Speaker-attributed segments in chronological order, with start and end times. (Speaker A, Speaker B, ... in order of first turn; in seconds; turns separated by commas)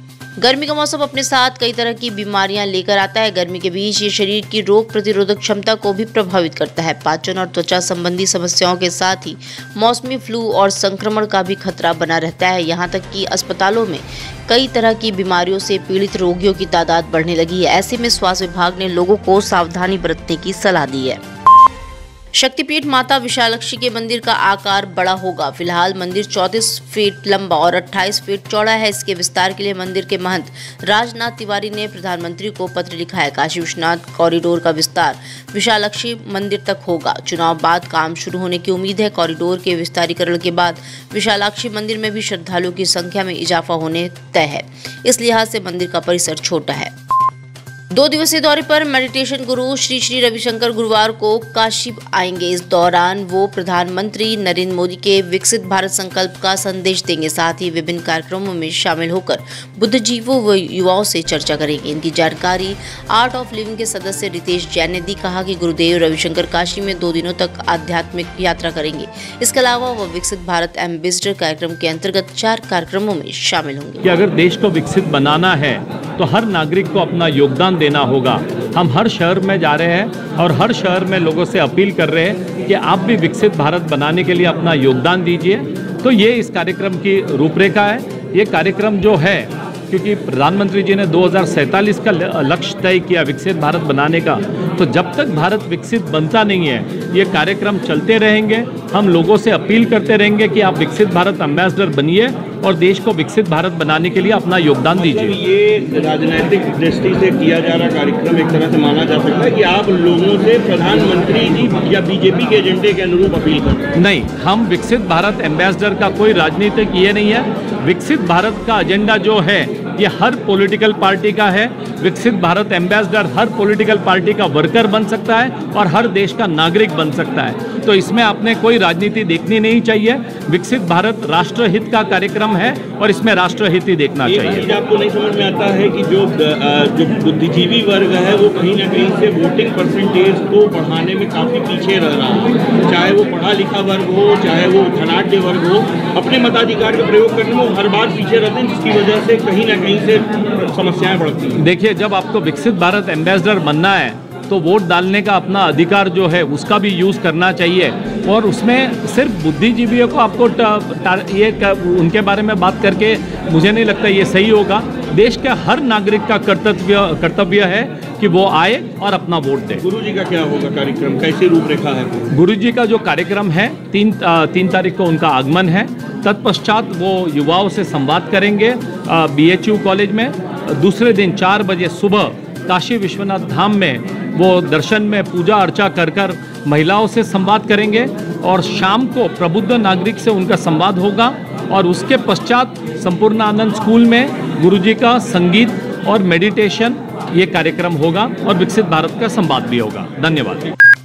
Speaker A: 0.4-21.2, Speaker A: 22.3-46.9, Speaker A: 47.9-74.1, Speaker B: 74.0-105.4, Speaker C: 104.9-113.9, Speaker B: 114.0-134.7, Speaker C: 134.2-151.7, Speaker B: 151.6-169.8, Speaker C: 169.8-172.3, Speaker B: 172.3-200.7